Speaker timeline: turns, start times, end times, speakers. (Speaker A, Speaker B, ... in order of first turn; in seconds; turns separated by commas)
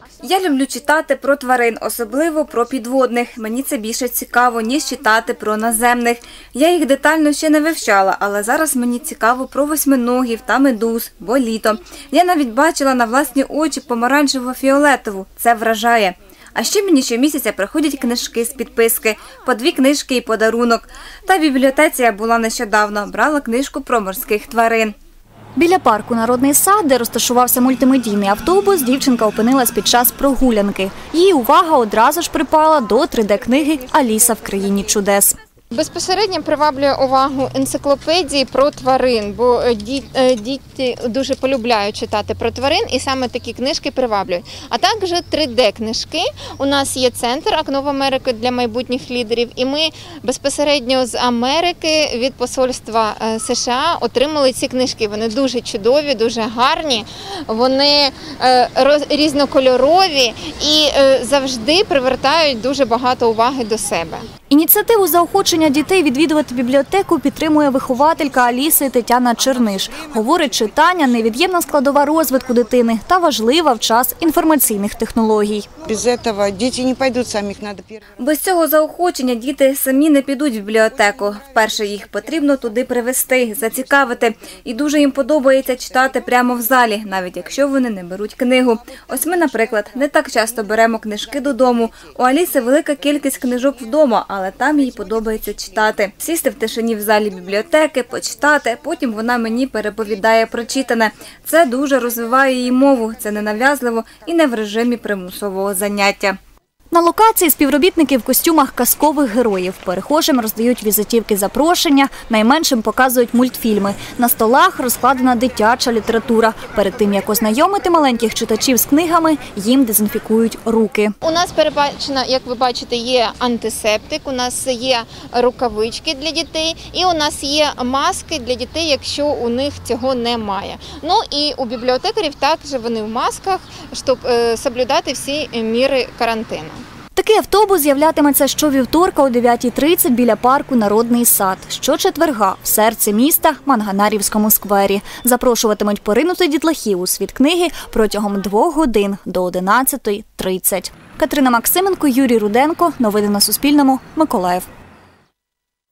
Speaker A: 0.2-25.0, Speaker B: 25.6-35.4, Speaker C: 35.7-64.3, Speaker B: 64.5-75.7, Speaker D: 75.9-78.0, Speaker A: 78.2-106.4, Speaker B: 106.9-121.1, Speaker C: 121.2-136.8, Speaker B: 137.2-154.7